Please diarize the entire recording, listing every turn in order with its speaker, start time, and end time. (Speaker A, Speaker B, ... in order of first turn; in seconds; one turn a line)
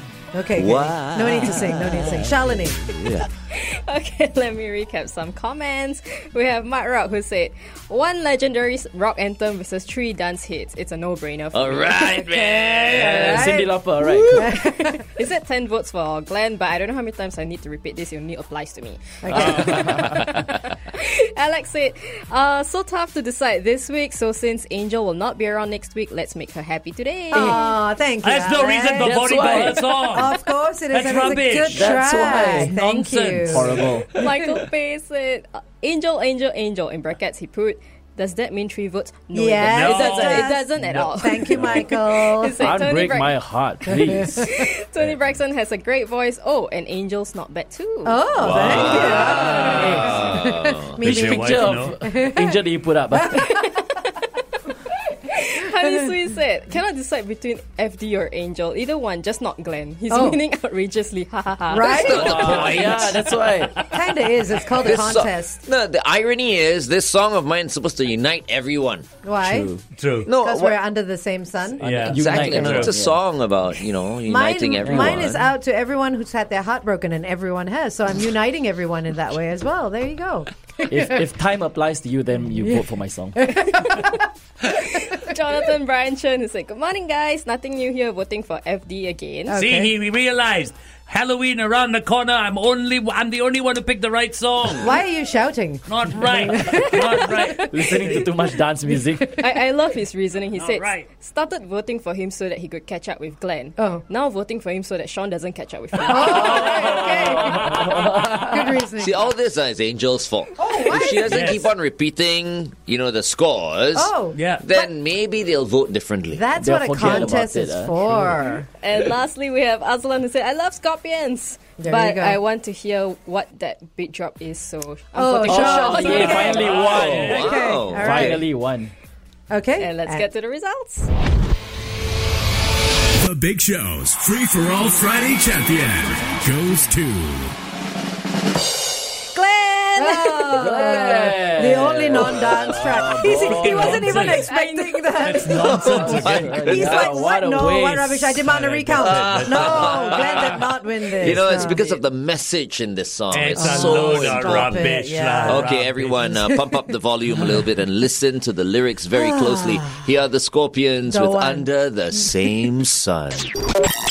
Speaker A: 0.3-2.8
Speaker B: 0.6-3.3
Speaker C: 3.5-12.8
Speaker B: 11.5-14.5
Speaker A: 12.1-13.7
Speaker D: 12.9-14.4
Speaker C: 14.3-27.8
Speaker A: 14.4-15.0
Speaker A: 19.2-20.0
Speaker A: 27.3-33.7
Speaker E: 28.2-30.4
Speaker D: 29.0-30.1
Speaker E: 30.9-32.0
Speaker D: 31.7-32.7
Speaker E: 32.6-33.9
Speaker D: 33.5-34.2
Speaker C: 34.2-50.0
Speaker A: 39.3-42.6
Speaker E: 39.6-41.8
Speaker D: 42.6-44.5
Speaker A: 48.0-52.6
Speaker B: 48.4-51.0
Speaker D: 48.6-48.8
Speaker D: 49.4-50.2
Speaker E: 51.0-52.0
Speaker D: 51.0-53.5
Speaker A: 53.1-53.5
Speaker C: 53.5-53.9
Speaker C: 55.3-62.4
Speaker A: 60.1-60.4
Speaker A: 61.7-62.5
Speaker B: 61.7-63.2
Speaker D: 62.1-63.8
Speaker E: 62.2-62.9
Speaker A: 63.9-65.6
Speaker B: 64.7-69.1
Speaker A: 69.2-69.7
Speaker D: 69.4-69.8
Speaker E: 70.0-70.3
Speaker B: 70.3-70.8
Speaker A: 70.3-71.8
Speaker E: 71.8-72.9
Speaker D: 71.8-73.2
Speaker B: 72.0-75.4
Speaker A: 74.3-81.1
Speaker D: 74.8-75.3
Speaker D: 80.9-83.6
Speaker A: 83.4-84.1
Speaker C: 83.6-89.6
Speaker A: 89.5-89.9
Speaker E: 89.5-94.9
Speaker A: 94.8-98.2
Speaker E: 95.9-98.3
Speaker D: 97.7-99.5
Speaker C: 99.4-107.3
Speaker E: 100.5-101.1
Speaker A: 103.8-104.0
Speaker A: 106.1-109.2
Speaker E: 106.6-107.8
Speaker D: 107.0-108.7
Speaker B: 109.0-116.5
Speaker A: 110.6-111.5
Speaker E: 111.3-111.7
Speaker A: 114.0-114.8
Speaker E: 114.3-114.7
Speaker A: 116.3-118.7
Speaker D: 116.6-118.3
Speaker C: 118.8-126.8
Speaker A: 121.8-122.4
Speaker A: 125.1-128.4
Speaker D: 125.5-128.9
Speaker E: 126.6-127.5
Speaker B: 126.8-128.4
Speaker A: 129.5-130.3
Speaker C: 129.8-131.1
Speaker F: 133.2-137.6
Speaker C: 139.3-141.3
Speaker A: 139.9-152.0
Speaker D: 140.5-144.4
Speaker E: 143.4-144.5
Speaker C: 144.2-145.8
Speaker E: 145.2-146.6
Speaker B: 145.6-147.3
Speaker D: 145.9-148.4
Speaker E: 148.4-150.2
Speaker B: 149.0-163.5
Speaker E: 153.3-156.2
Speaker A: 153.6-155.7
Speaker A: 156.2-156.6
Speaker A: 159.1-160.1
Speaker A: 161.1-161.7